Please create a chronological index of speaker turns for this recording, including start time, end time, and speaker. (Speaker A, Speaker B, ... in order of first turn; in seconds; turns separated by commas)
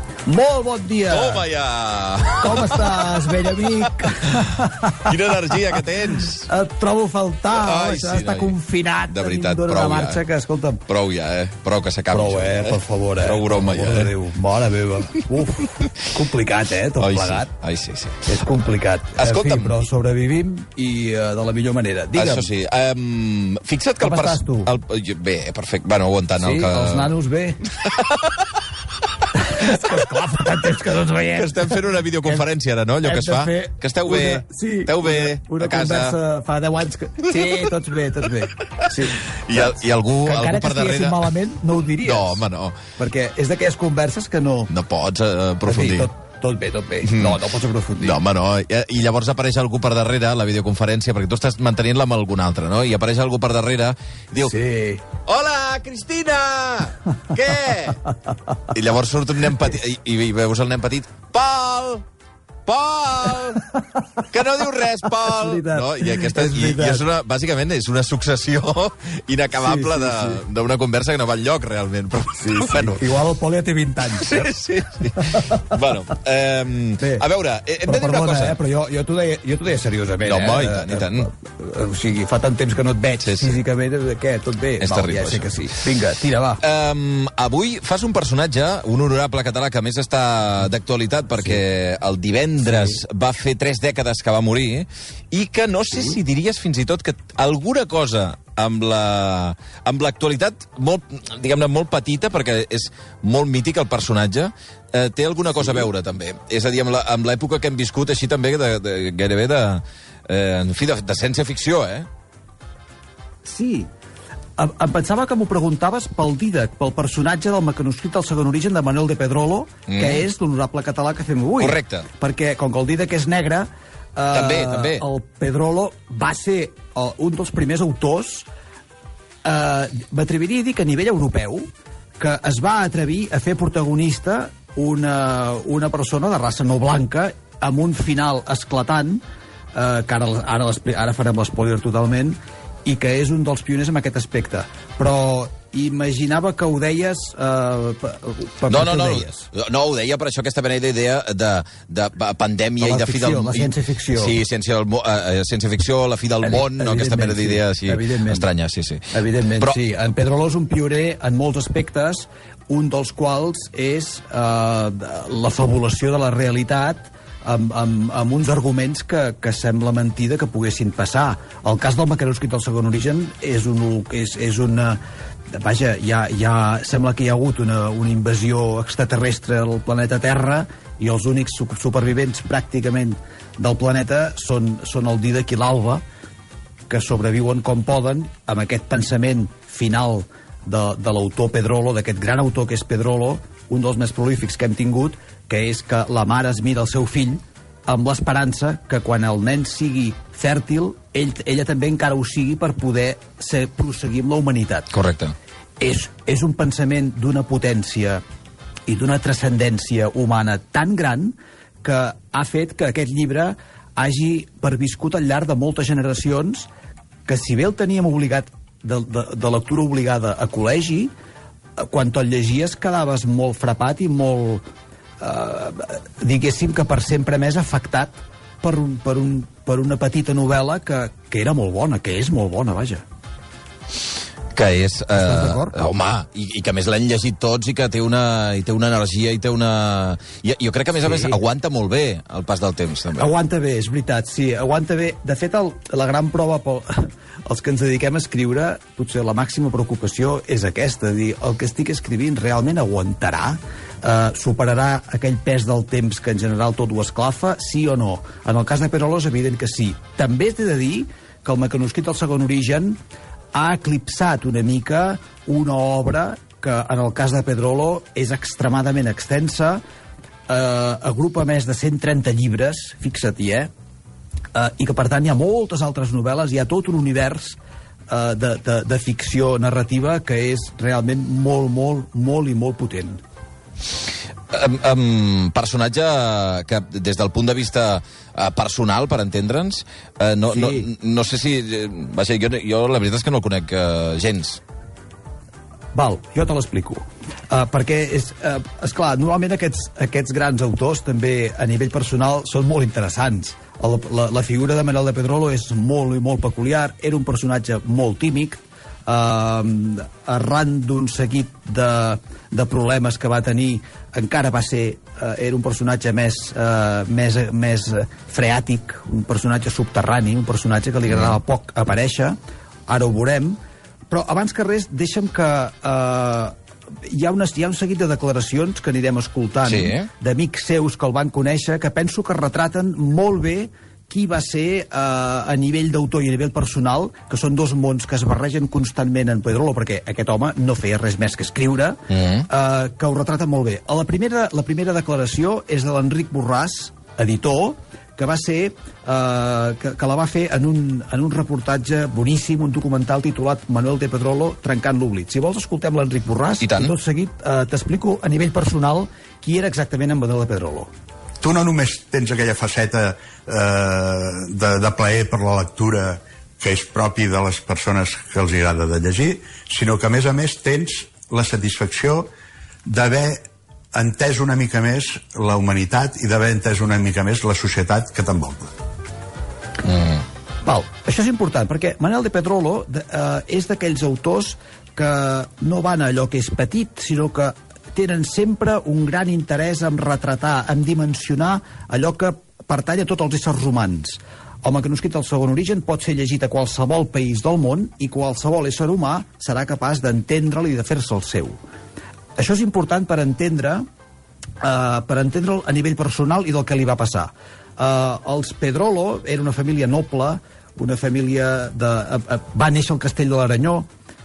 Speaker A: 0.3-1.5, Speaker B: 1.1-6.5, Speaker A: 2.4-5.1, Speaker A: 6.5-10.8, Speaker B: 7.5-8.6, Speaker B: 9.1-10.2, Speaker B: 10.9-14.1, Speaker A: 12.1-17.5, Speaker B: 17.0-18.3, Speaker A: 18.3-22.5, Speaker B: 19.2-19.7, Speaker B: 22.1-27.1, Speaker A: 24.0-24.7, Speaker A: 26.4-27.6, Speaker B: 27.8-28.3, Speaker A: 29.3-32.4, Speaker B: 31.3-36.2, Speaker A: 33.0-42.4, Speaker B: 37.3-37.6, Speaker B: 38.8-41.4, Speaker B: 42.0-42.8, Speaker A: 43.0-44.7, Speaker B: 44.7-46.1, Speaker A: 45.6-48.2, Speaker B: 47.0-47.4, Speaker B: 48.0-54.6, Speaker A: 54.4-55.0, Speaker B: 55.2-58.0, Speaker B: 58.7-62.0, Speaker B: 62.7-63.7, Speaker B: 64.3-73.0, Speaker A: 65.2-67.1, Speaker A: 69.6-70.4, Speaker A: 72.4-74.5, Speaker B: 74.2-78.6, Speaker A: 75.2-75.7, Speaker A: 77.0-77.2, Speaker A: 77.8-86.6, Speaker B: 80.2-81.3, Speaker B: 83.2-83.6, Speaker B: 84.8-85.5, Speaker B: 86.6-112.1, Speaker A: 113.5-113.9, Speaker A: 114.6-128.5, Speaker B: 119.9-120.3, Speaker B: 121.6-122.1, Speaker B: 124.3-125.0, Speaker A: 129.4-139.2, Speaker A: 139.7-149.5, Speaker B: 148.7-159.8, Speaker A: 152.8-154.4, Speaker A: 156.4-158.5, Speaker A: 159.1-186.0, Speaker A: 186.9-204.9, Speaker B: 204.9-205.3, Speaker A: 205.8-208.2, Speaker A: 208.9-216.7, Speaker A: 217.3-221.1, Speaker A: 221.8-224.7, Speaker A: 225.2-233.0, Speaker B: 234.5-243.3, Speaker A: 235.1-235.9, Speaker A: 241.0-241.4, Speaker A: 243.2-263.0, Speaker A: 263.5-269.8, Speaker A: 270.5-273.7, Speaker A: 274.5-277.6, Speaker A: 278.1-283.2, Speaker B: 284.5-294.6, Speaker A: 290.5-290.9, Speaker A: 295.9-322.4, Speaker B: 321.1-321.4, Speaker A: 322.9-323.6, Speaker A: 324.1-360.9, Speaker B: 329.6-330.1, Speaker B: 342.1-342.5, Speaker B: 356.6-356.9, Speaker C: 361.4-372.3, Speaker C: 372.9-373.4, Speaker C: 373.9-378.7, Speaker B: 379.9-380.2, Speaker A: 380.6-401.6, Speaker A: 402.4-403.9, Speaker A: 404.6-413.9